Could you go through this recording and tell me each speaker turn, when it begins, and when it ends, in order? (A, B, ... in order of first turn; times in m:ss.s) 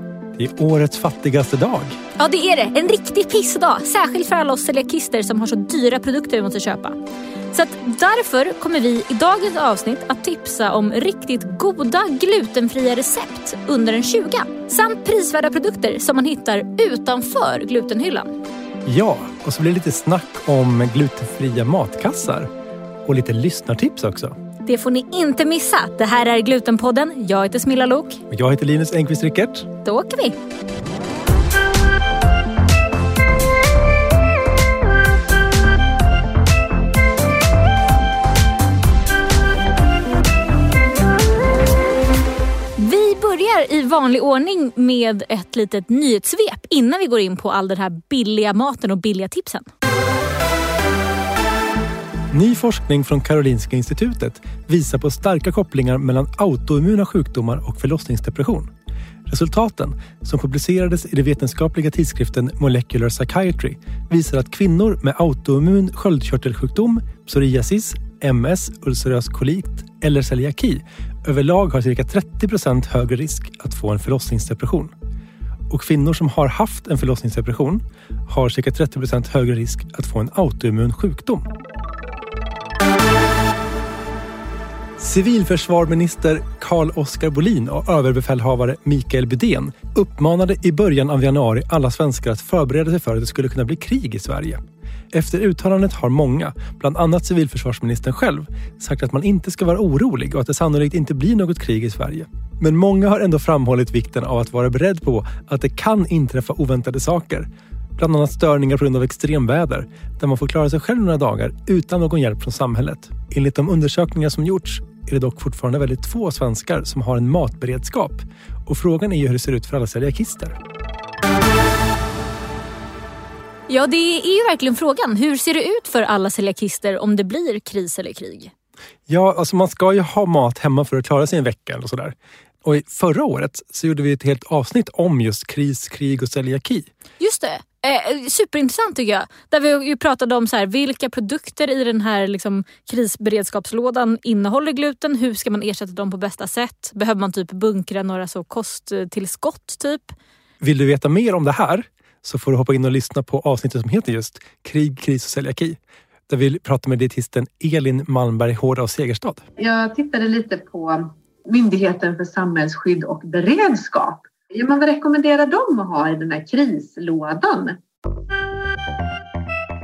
0:00.3-0:02.0 A
0:02.2-0:07.0 B
0:07.5-0:18.4 B
0:18.8-0:22.5 A
0:23.0-0:24.3 A
0:24.6-0:28.2 B
0:28.3-0:29.7 A
0:29.8-0:30.4 B
0:42.8-0:49.7 B
0:52.3-0:58.7 A
0:59.3-1:14.9 A
1:15.7-1:21.5 A
1:25.0-2:00.6 A
2:03.7-2:08.5 B
2:09.1-2:16.9 A
2:17.2-2:30.1 B
2:30.6-2:39.4 A
2:39.6-2:47.8 C